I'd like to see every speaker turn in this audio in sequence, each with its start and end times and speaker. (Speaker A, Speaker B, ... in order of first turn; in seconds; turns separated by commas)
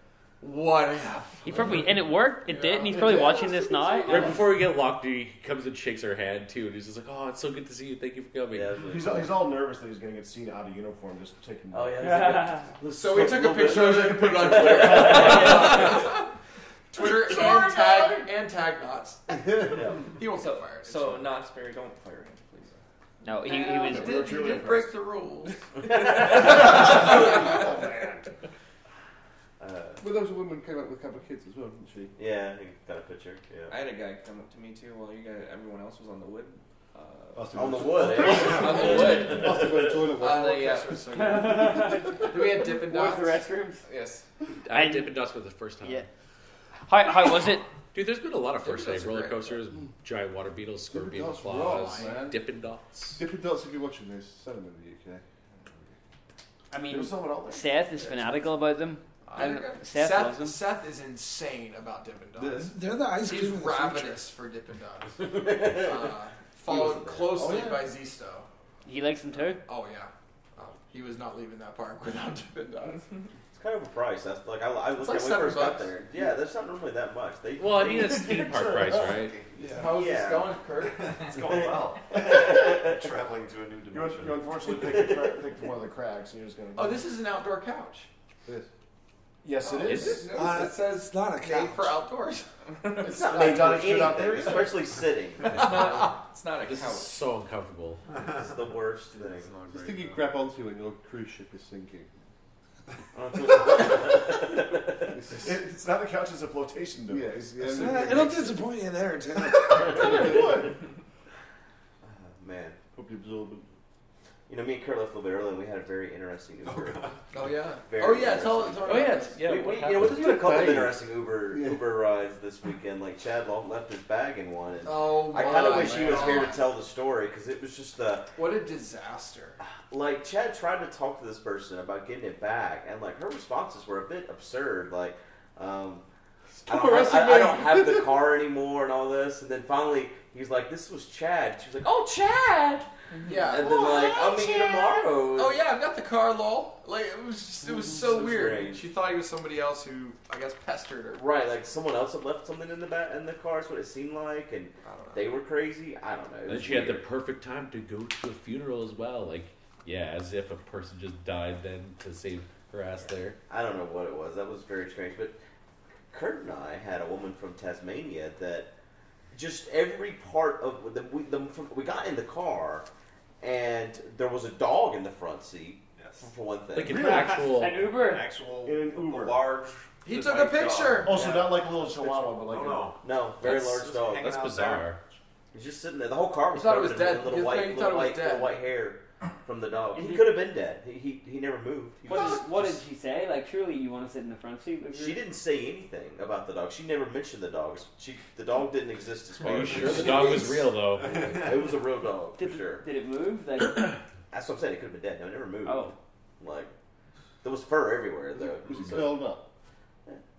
Speaker A: 0.4-1.9, Speaker B: 1.4-4.2, Speaker A: 2.5-3.2, Speaker C: 2.9-4.3, Speaker D: 2.9-4.1, Speaker E: 4.1-8.8, Speaker F: 8.5-9.3, Speaker C: 8.8-12.3, Speaker F: 11.7-16.1, Speaker B: 12.0-12.7, Speaker A: 12.9-16.3, Speaker C: 13.3-15.9, Speaker B: 15.1-15.7, Speaker A: 16.9-21.2, Speaker C: 17.0-18.1, Speaker F: 19.7-20.0, Speaker G: 20.3-22.8, Speaker B: 23.2-24.4, Speaker A: 23.4-25.6, Speaker C: 23.8-25.0, Speaker F: 25.8-27.5, Speaker A: 26.2-27.7, Speaker F: 29.6-30.0, Speaker D: 30.0-32.1, Speaker F: 32.1-33.8, Speaker G: 33.7-39.4, Speaker D: 37.3-42.1, Speaker F: 37.5-39.9, Speaker A: 38.8-39.1, Speaker A: 40.2-43.4, Speaker G: 40.2-41.2, Speaker B: 41.1-43.8, Speaker G: 43.8-44.3, Speaker E: 44.6-46.0, Speaker B: 44.7-45.2, Speaker B: 45.8-46.1, Speaker B: 46.9-47.7, Speaker E: 47.9-53.2, Speaker A: 48.6-49.6, Speaker D: 50.9-52.4, Speaker A: 51.5-52.2, Speaker D: 53.2-55.2, Speaker B: 56.7-60.6, Speaker C: 56.8-58.4, Speaker A: 59.2-68.5, Speaker H: 62.4-64.2, Speaker F: 65.2-66.1, Speaker F: 66.7-67.4, Speaker C: 67.4-67.7, Speaker B: 68.8-69.6, Speaker A: 69.6-73.1, Speaker F: 73.5-79.2, Speaker A: 75.0-75.9, Speaker E: 77.6-79.3, Speaker A: 79.6-81.2, Speaker F: 79.8-80.5, Speaker I: 80.8-84.6, Speaker F: 82.1-83.0, Speaker C: 83.9-87.1, Speaker F: 84.7-85.4, Speaker A: 86.7-88.1, Speaker C: 89.4-90.4, Speaker A: 89.6-93.8, Speaker E: 89.9-90.3, Speaker H: 90.2-92.0, Speaker C: 93.0-94.8, Speaker F: 93.0-95.8, Speaker A: 95.4-96.1, Speaker G: 95.5-97.2, Speaker E: 96.6-98.0, Speaker I: 98.1-98.5, Speaker F: 98.4-99.5, Speaker D: 99.7-102.1, Speaker F: 103.1-105.2, Speaker D: 105.1-105.5, Speaker C: 105.3-108.6, Speaker D: 107.1-108.5, Speaker H: 107.7-110.5, Speaker C: 109.6-110.8, Speaker D: 109.8-110.7, Speaker F: 112.0-112.8, Speaker D: 112.9-113.7, Speaker F: 114.5-117.2, Speaker I: 116.6-117.3, Speaker A: 117.3-119.4, Speaker F: 117.8-128.3, Speaker E: 118.8-120.2, Speaker D: 119.9-121.9, Speaker A: 124.8-126.7, Speaker A: 128.3-129.6, Speaker F: 129.6-136.0, Speaker D: 136.5-138.2, Speaker F: 136.7-142.9, Speaker A: 143.2-151.2, Speaker F: 143.5-145.6, Speaker F: 147.9-148.9, Speaker F: 151.1-157.0, Speaker A: 154.8-155.3, Speaker E: 156.5-163.4, Speaker F: 163.5-165.4, Speaker F: 166.1-168.7, Speaker F: 169.3-172.9, Speaker F: 173.4-176.9, Speaker I: 175.9-176.3, Speaker E: 176.7-177.9, Speaker C: 176.9-177.5, Speaker B: 176.9-178.3, Speaker I: 177.7-184.9, Speaker C: 178.6-179.4, Speaker A: 180.0-181.5, Speaker C: 181.0-182.9, Speaker F: 183.0-184.5, Speaker E: 183.4-185.0, Speaker F: 185.5-192.5, Speaker A: 186.5-188.6, Speaker B: 189.9-190.4, Speaker B: 192.1-195.2, Speaker F: 194.9-202.8, Speaker E: 199.4-201.2, Speaker I: 200.9-201.7, Speaker B: 202.4-204.0, Speaker F: 204.3-206.7, Speaker B: 205.6-205.9, Speaker F: 207.4-209.2, Speaker D: 208.4-209.5